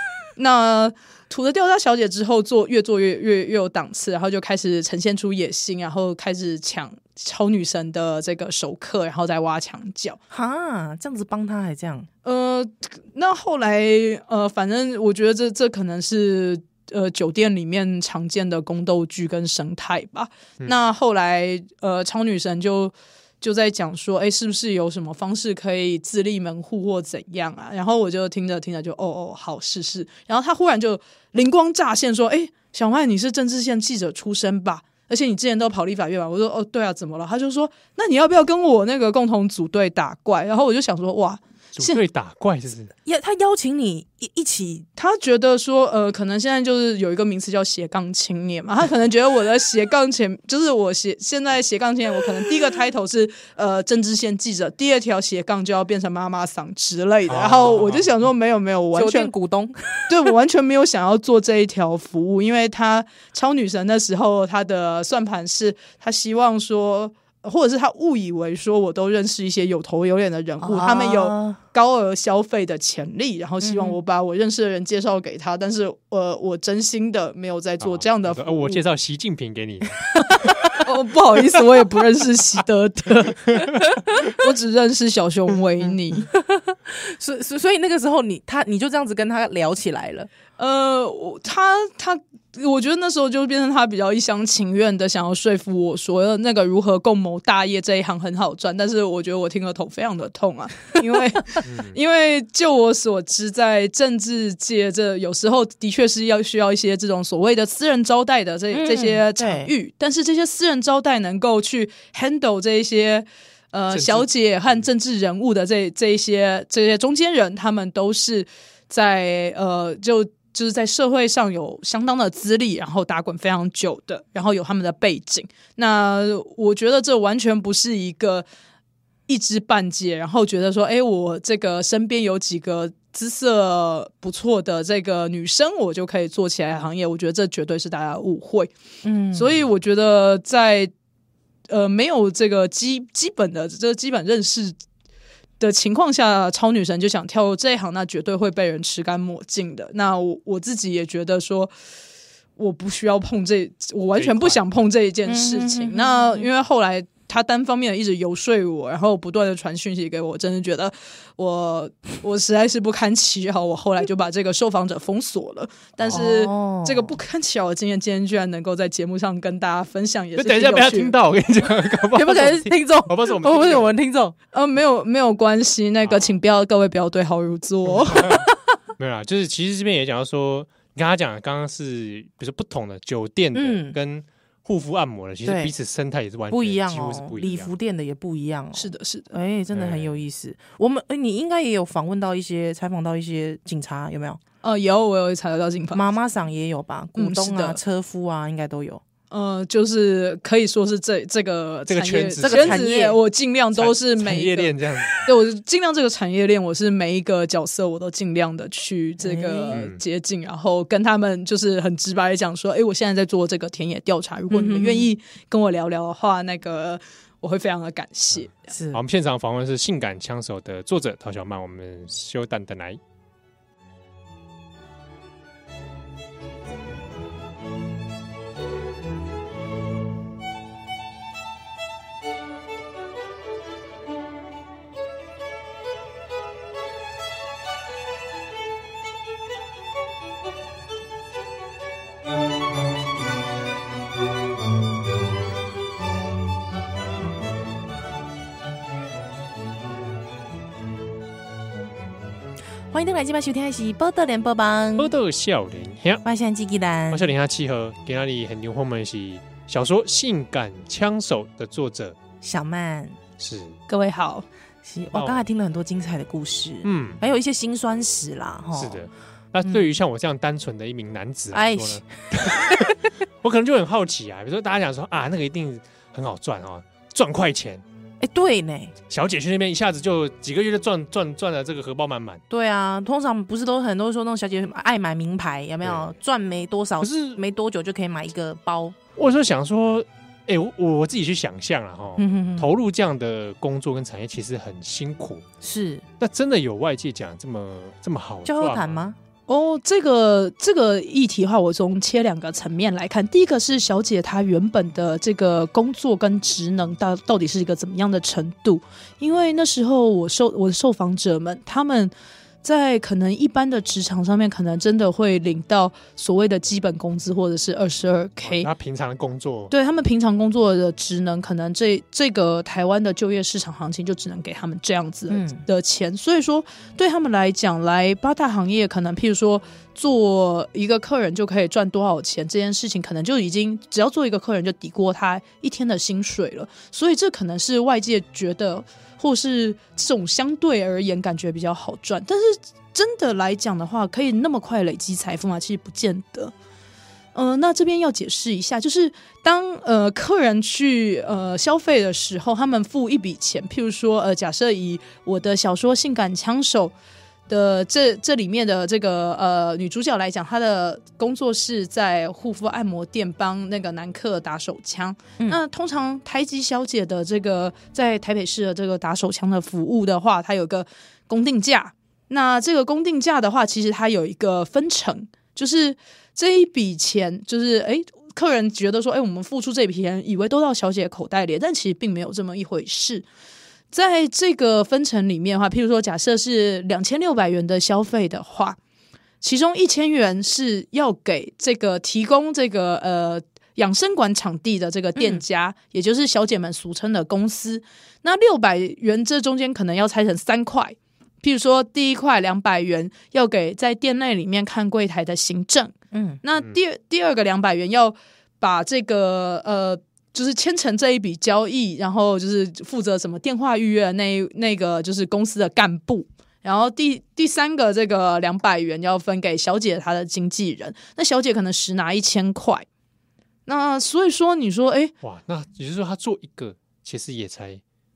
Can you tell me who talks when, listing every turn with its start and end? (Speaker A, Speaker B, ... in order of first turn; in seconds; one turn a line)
Speaker A: 0.4-10.2
Speaker B: 10.3-12.1
Speaker A: 12.2-42.0
Speaker C: 41.8-42.9
Speaker B: 43.0-44.9
Speaker A: 45.0-59.3
Speaker C: 57.3-58.1
Speaker B: 58.9-60.1
Speaker A: 60.1-78.8
Speaker B: 70.6-71.6
Speaker B: 73.6-74.0
Speaker C: 77.8-80.2
Speaker A: 80.6-86.3
Speaker B: 86.3-90.3
Speaker A: 90.6-128.4
Speaker C: 101.6-102.0
Speaker B: 108.7-109.7
Speaker C: 113.9-114.3
Speaker A: 129.3-138.7
Speaker B: 139.0-139.5
Speaker A: 139.3-140.9
Speaker A: 141.7-144.7
Speaker A: 145.6-151.7
Speaker A: 152.6-171.1
Speaker C: 154.2-154.6
Speaker B: 155.2-156.5
Speaker B: 166.1-167.2
Speaker C: 170.4-173.9
Speaker B: 172.1-174.3
Speaker A: 174.5-178.5
Speaker C: 176.0-176.4
Speaker C: 178.1-178.4
Speaker C: 179.0-187.7
Speaker B: 183.5-184.0
Speaker B: 185.4-185.7
Speaker B: 186.5-194.4
Speaker A: 188.7-189.3
Speaker C: 189.7-190.1
Speaker A: 194.6-196.0
Speaker B: 195.9-199.0
Speaker A: 197.2-197.8
Speaker A: 199.3-218.5
Speaker C: 201.9-202.8
Speaker B: 202.4-203.2
Speaker C: 203.7-205.3
Speaker B: 209.2-209.8
Speaker C: 209.7-210.0
Speaker B: 214.5-215.1
Speaker B: 218.7-219.0
Speaker C: 218.9-223.0
Speaker B: 252.9-255.1
Speaker C: 255.0-256.2
Speaker B: 256.2-257.3
Speaker C: 257.1-262.1
Speaker B: 262.4-263.2
Speaker C: 263.4-263.8
Speaker A: 263.9-264.4
Speaker B: 264.8-269.0
Speaker C: 265.1-265.4
Speaker C: 266.8-267.2
Speaker C: 268.7-277.8
Speaker B: 271.5-272.9
Speaker B: 278.2-278.9
Speaker C: 279.1-282.4
Speaker B: 282.5-288.9
Speaker C: 285.8-286.1
Speaker C: 287.0-287.4
Speaker C: 289.2-295.4
Speaker B: 292.2-292.7
Speaker B: 295.6-296.0
Speaker C: 296.2-299.0
Speaker B: 298.4-299.1
Speaker A: 299.5-318.7
Speaker C: 318.4-319.7
Speaker A: 319.7-346.5
Speaker B: 325.3-325.6
Speaker A: 347.3-356.9
Speaker A: 357.5-383.2
Speaker A: 383.9-388.8
Speaker A: 389.4-422.9
Speaker B: 406.1-406.4
Speaker A: 423.6-425.1
Speaker C: 425.2-427.8